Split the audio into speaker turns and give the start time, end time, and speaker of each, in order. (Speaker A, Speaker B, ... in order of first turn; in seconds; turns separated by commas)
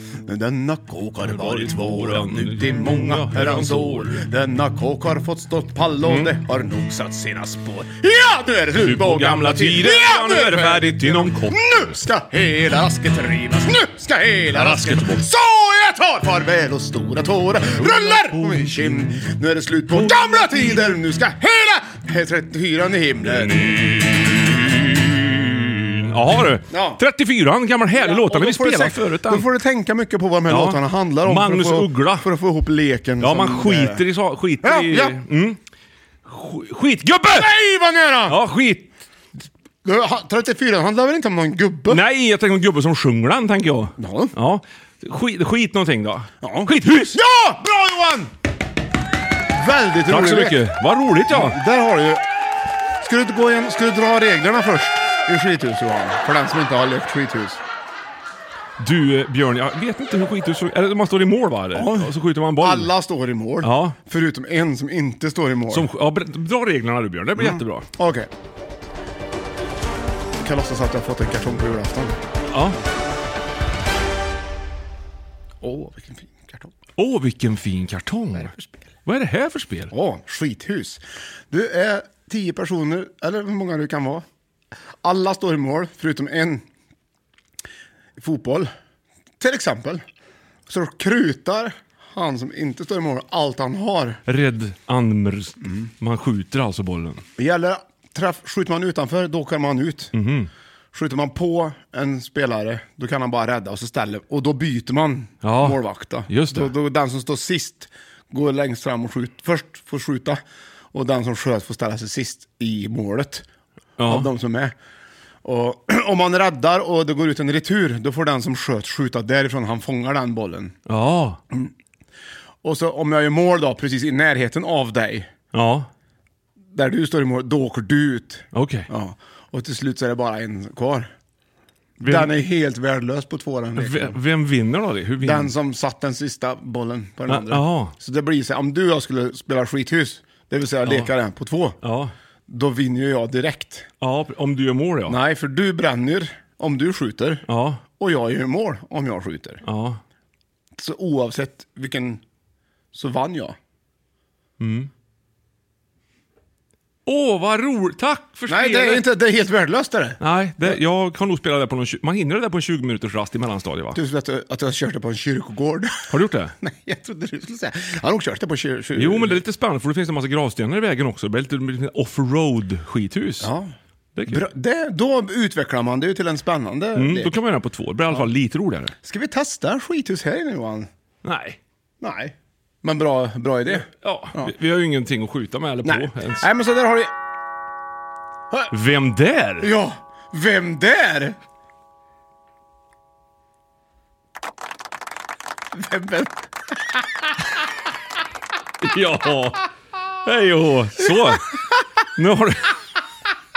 Speaker A: 0.3-24.0, Speaker B: 1.2-4.2, Speaker B: 6.0-6.3, Speaker B: 8.8-11.9, Speaker B: 14.5-15.3, Speaker B: 17.7-19.2, Speaker B: 19.9-21.0, Speaker B: 23.2-29.5, Speaker A: 26.7-27.0, Speaker A: 27.9-34.0, Speaker B: 30.5-32.3, Speaker B: 33.2-35.6, Speaker A: 34.6-35.2, Speaker B: 36.2-37.5, Speaker A: 37.3-38.4, Speaker B: 38.2-38.9, Speaker A: 39.8-42.0, Speaker B: 41.9-47.2, Speaker A: 44.0-44.3, Speaker A: 46.4-48.3, Speaker A: 49.5-50.6, Speaker B: 50.1-51.6, Speaker A: 51.3-52.2, Speaker A: 53.0-57.6, Speaker B: 58.8-62.9, Speaker A: 61.7-65.9, Speaker B: 63.6-64.0, Speaker B: 65.7-67.9, Speaker A: 67.3-68.3, Speaker A: 70.4-72.2, Speaker B: 72.5-72.8, Speaker A: 75.6-76.7, Speaker B: 77.0-78.5, Speaker A: 78.4-78.7, Speaker B: 79.0-79.9, Speaker A: 79.9-84.2, Speaker A: 85.0-86.6, Speaker A: 88.2-88.7, Speaker A: 89.4-90.0, Speaker A: 90.7-94.2, Speaker B: 94.3-97.2, Speaker A: 97.4-100.1, Speaker B: 100.1-100.5, Speaker A: 100.9-110.4, Speaker B: 105.4-106.7, Speaker A: 110.9-113.4, Speaker B: 114.0-114.3, Speaker A: 114.0-114.7, Speaker A: 115.4-120.7, Speaker B: 120.8-121.4, Speaker A: 122.6-125.3, Speaker B: 125.5-125.9, Speaker A: 126.7-131.1, Speaker B: 128.5-128.9, Speaker A: 132.0-134.2, Speaker B: 132.0-132.3, Speaker B: 133.8-135.5, Speaker A: 135.2-141.8, Speaker B: 137.3-137.9, Speaker B: 140.8-141.1, Speaker B: 141.8-142.1, Speaker A: 142.5-143.8, Speaker B: 144.0-145.2, Speaker A: 145.1-147.4, Speaker B: 147.5-147.8, Speaker A: 148.0-149.6, Speaker B: 149.6-150.0, Speaker A: 150.8-152.2, Speaker A: 152.9-153.6, Speaker B: 154.6-154.9, Speaker B: 157.1-159.0, Speaker A: 158.5-160.7, Speaker B: 160.2-164.0, Speaker A: 163.9-166.1, Speaker B: 166.1-166.5, Speaker A: 166.6-169.4, Speaker B: 168.9-173.5, Speaker A: 173.4-173.7, Speaker B: 174.1-174.4, Speaker A: 174.3-177.3, Speaker B: 176.9-178.9, Speaker A: 179.0-180.9, Speaker B: 181.2-181.6, Speaker A: 182.0-184.5, Speaker B: 183.7-186.4, Speaker A: 185.8-187.1, Speaker B: 188.7-189.7, Speaker A: 189.6-191.3, Speaker A: 195.7-197.0, Speaker B: 198.8-199.6, Speaker B: 200.2-201.5, Speaker B: 202.1-202.7